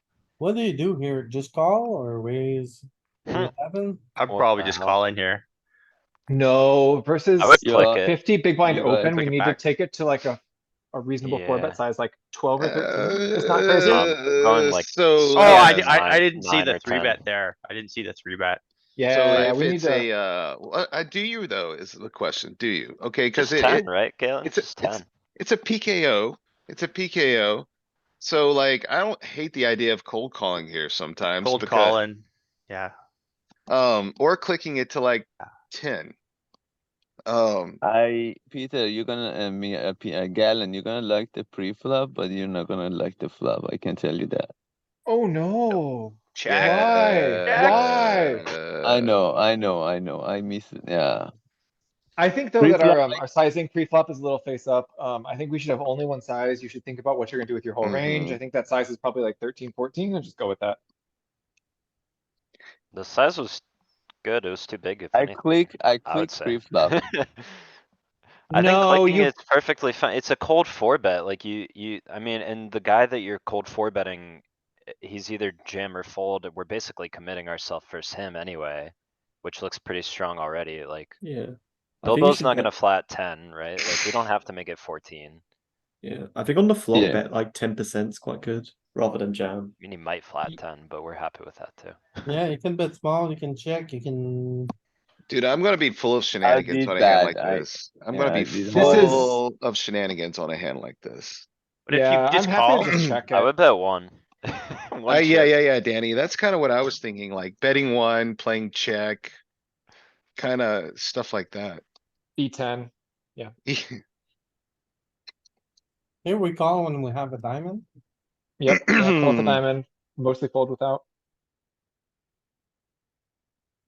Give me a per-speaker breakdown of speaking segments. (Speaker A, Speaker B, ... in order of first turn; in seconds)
Speaker A: 0.4-4.0, 92.2-94.7, 116.2-117.9
Speaker B: 4.2-5.4, 9.1-9.6, 15.3-18.6, 31.4-32.9, 101.9-102.9
Speaker C: 4.3-5.0, 7.4-8.2, 11.2-11.8, 13.8-17.2, 23.4-25.1, 62.9-63.6, 64.2-65.5, 66.0-67.5, 68.5-74.4, 75.0-81.2, 82.0-85.4, 89.8-92.0, 103.3-105.5
Speaker D: 6.3-10.4, 10.9-14.2, 19.0-20.1, 45.1-48.5, 52.2-60.8, 68.5-69.3, 98.8-99.2, 101.9-103.5, 112.4-113.5, 118.6-121.0
Speaker E: 7.6-9.3, 37.8-44.5, 48.8-51.3, 52.6-53.2, 65.1-67.0, 86.9-87.2, 96.4-99.4
Speaker F: 12.6-15.9, 19.1-23.9, 24.4-27.7, 28.2-32.0, 33.7-36.1, 37.3-37.8, 46.4-49.2, 57.8-58.4, 95.3-101.5, 102.9-103.2, 105.1-109.4, 110.4-111.8, 113.7-114.0, 118.7-119.6
Speaker G: 81.2-82.7, 86.0-89.7